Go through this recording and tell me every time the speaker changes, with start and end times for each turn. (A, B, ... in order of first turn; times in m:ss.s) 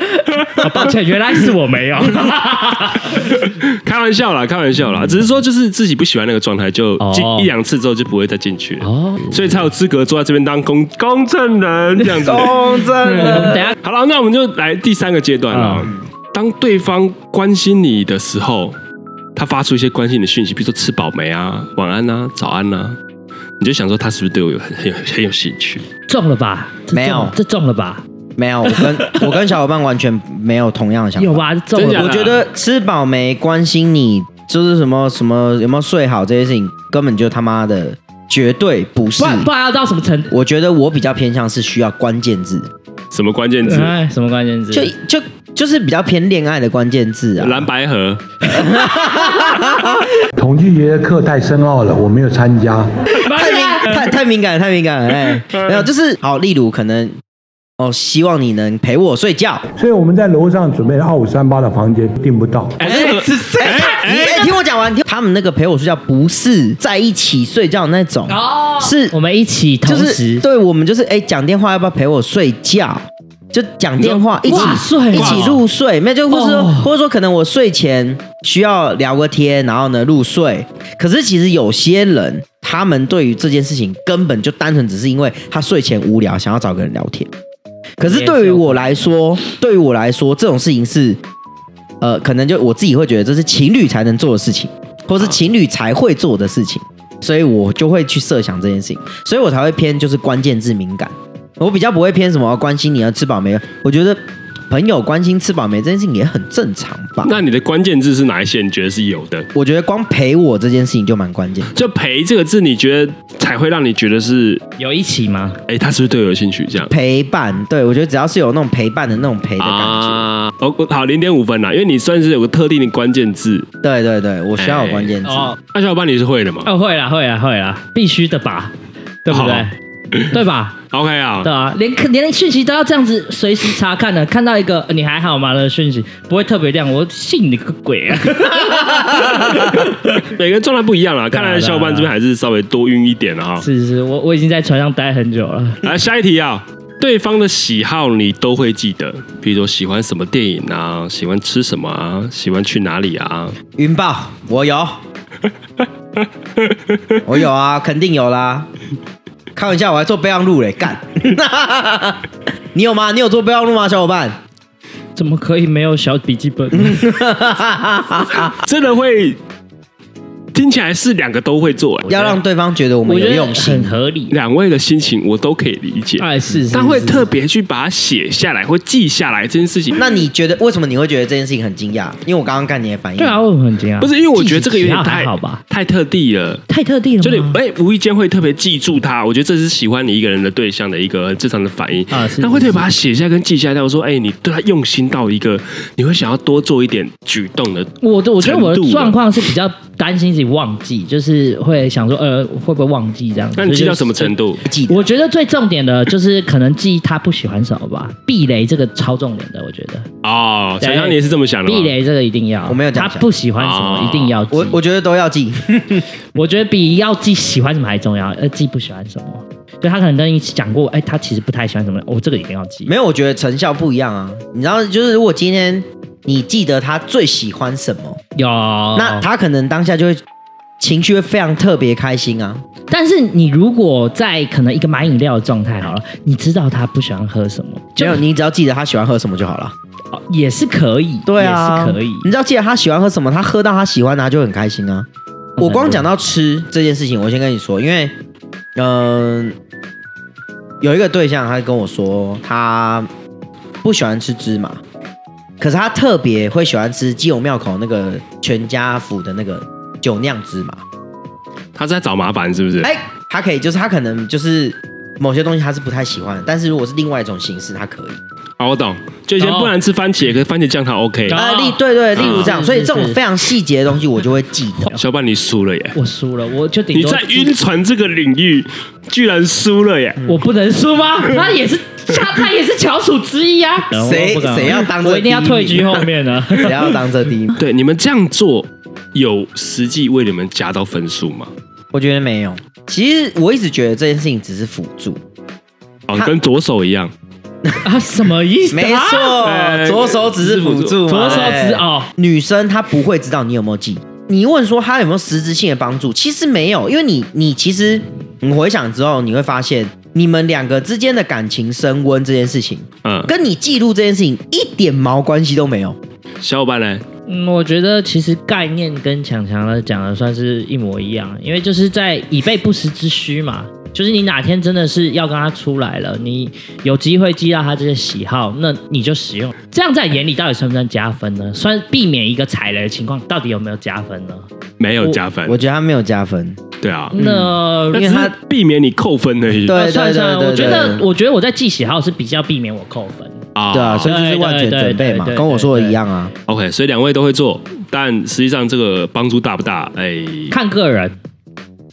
0:00.4-0:03.4 A
0:03.2-0:12.6 B
0:07.0-0:07.5 A
0:08.8-0:09.7 A
0:12.2-0:13.6 C
0:13.0-0:13.8 A
0:13.2-0:18.8 B
0:15.5-0:15.9 A
0:19.4-0:23.0 B
0:23.6-0:25.9 B
0:26.1-0:28.0 A
0:26.9-0:27.4 C
0:28.4-0:39.5 C
0:28.7-0:29.3 A
0:31.2-0:32.2 A
0:31.8-0:32.4 B
0:39.2-0:40.3 A
0:40.3-0:42.7 C
0:43.1-0:43.9 B
0:43.6-0:44.9 A
0:44.7-0:47.7 C
0:47.4-0:48.2 B
0:48.5-0:50.0 C
0:50.4-0:52.9 D
0:53.2-0:54.0 A
0:53.3-0:57.2 C
0:57.8-0:59.6 C
0:59.8-1:02.8 D
1:02.8-1:04.5 B
1:02.8-1:09.2 C
1:02.9-1:04.0 A
1:08.3-1:10.4 A
1:09.8-1:27.3 C
1:14.0-1:15.6 B
1:14.4-1:15.6 A
1:16.3-1:16.9 A
1:28.0-1:31.2 C
1:28.0-1:29.1 A
1:32.0-1:47.4 C
1:47.2-1:49.5 B
1:49.6-1:51.7 C
1:51.7-1:54.6 B
1:54.8-1:55.6 A
1:55.7-1:56.9 B
1:56.9-2:00.3 C
1:59.6-2:03.7 B
2:03.8-2:05.6 C
2:04.6-2:06.7 B
2:05.2-2:05.5 A
2:06.6-2:08.7 A
2:09.2-2:09.7 A
2:09.3-2:10.3 B
2:10.3-2:10.8 A
2:10.9-2:11.5 B
2:11.4-2:20.2 A
2:19.2-2:23.7 B
2:21.3-2:22.1 A
2:23.6-2:25.8 A
2:25.8-2:33.6 B
2:33.8-2:35.0 C
2:36.6-2:37.2 B
2:37.2-2:38.7 C
2:39.6-2:44.4 C
2:45.2-2:47.1 A
2:46.7-2:48.6 C
2:48.5-2:49.4 B
2:50.5-2:52.2 B
2:52.1-2:54.0 C
2:52.1-2:52.4 A
2:53.0-2:54.4 A
2:54.3-3:00.0 B
2:56.2-2:57.3 A
3:00.0-3:03.4 C
3:03.2-3:05.6 A
3:04.0-3:06.6 B
3:06.7-3:07.6 A
3:07.2-3:19.2 B
3:12.1-3:12.9 A
3:18.0-3:24.3 A
3:23.6-3:24.6 B
3:24.6-3:25.1 C
3:24.9-3:30.1 A
3:30.2-3:31.9 B
3:30.8-3:34.8 A
3:32.7-3:33.3 C
3:33.6-3:34.4 B
3:34.5-3:36.1 C
3:36.4-3:42.9 A
3:42.9-3:48.2 C
3:48.4-3:49.3 A
3:49.0-3:50.2 C
3:50.8-3:52.6 C
3:52.9-3:58.2 A
3:58.0-3:59.7 C
4:00.1-4:02.3 A
4:01.3-4:05.1 C
4:05.6-4:06.1 A
4:05.6-4:08.1 C
4:08.8-4:09.6 C
4:10.8-4:13.1 C
4:13.8-4:14.8 C
4:15.6-4:20.8 C
4:21.8-4:22.9 B
4:22.8-4:28.2 C
4:28.6-4:31.4 B
4:29.4-4:29.7 A
4:31.3-4:33.2 A
4:31.3-4:34.9 C
4:32.2-4:32.5 B
4:35.0-4:36.0 B
4:36.0-4:37.6 A
4:36.9-4:40.2 B
4:40.2-4:46.9 A
4:43.9-4:47.6 C
4:47.6-4:51.5 B
4:51.9-4:55.2 C
4:56.1-4:57.1 B
4:57.8-4:59.4 A
4:58.7-5:16.0 C
4:59.4-5:01.6 B
5:01.1-5:02.1 A
5:13.0-5:13.3 B
5:16.4-5:17.0 B
5:17.3-5:34.5 A
5:34.8-5:35.6 B
5:35.4-5:36.6 C
5:36.8-5:37.2 B
5:37.1-5:38.2 A
5:37.2-5:38.3 C
5:37.9-5:39.8 B
5:39.7-5:41.0 C
5:39.7-5:43.4 A
5:43.6-5:44.1 B
5:43.7-5:46.3 C
5:44.1-5:46.0 A
5:46.5-5:50.5 B
5:50.5-5:51.2 A